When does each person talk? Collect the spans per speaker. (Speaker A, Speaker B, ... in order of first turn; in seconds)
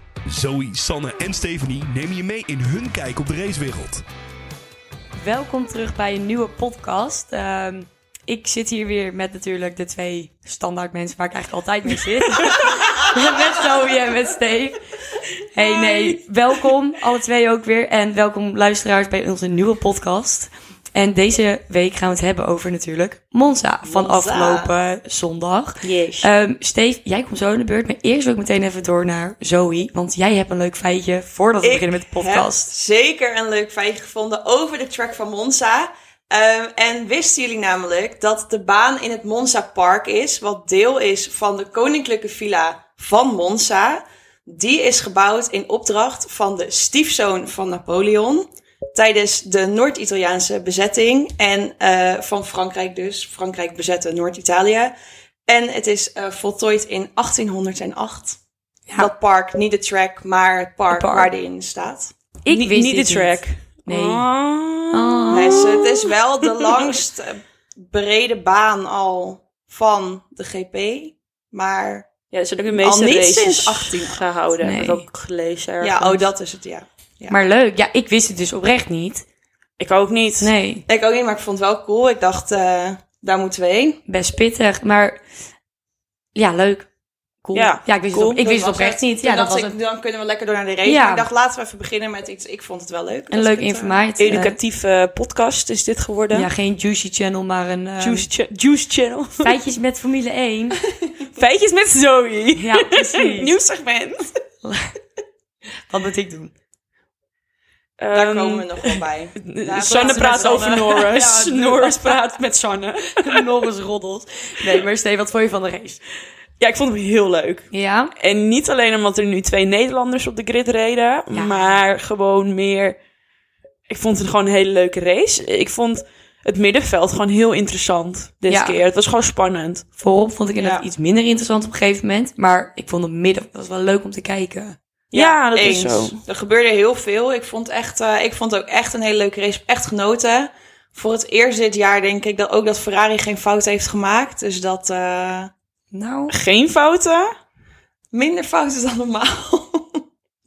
Speaker A: 0.2-4.0
Speaker B: 5.2-14.8, 15.5-32.7, 60.9-61.3, 62.4-64.3, 64.9-65.8, 74.6-75.0, 77.3-79.2, 80.4-80.8, 84.1-85.2, 86.3-86.9, 87.4-89.7, 90.8-91.2, 93.3-94.6, 96.3-98.3, 99.4-100.8, 102.5-103.5, 104.6-105.0, 105.9-106.5, 109.8-112.2, 113.1-116.0, 117.7-118.1, 121.3-121.8, 128.5-128.8, 130.0-134.8, 145.9-146.3
Speaker C: 15.6-16.2, 25.8-26.3, 62.5-66.9, 72.3-76.2, 79.8-80.5, 87.5-88.4, 94.2-96.5, 98.0-99.5, 101.3-104.3, 108.0-113.5, 116.6-123.0, 123.9-129.8, 135.1-136.2, 146.3-147.3
Speaker D: 23.8-24.7, 31.6-54.9, 55.5-58.4, 59.0-62.1, 65.3-72.1, 72.7-74.2, 75.8-77.4, 80.9-84.0, 88.4-94.0, 108.1-111.1, 135.1-145.5, 148.1-150.0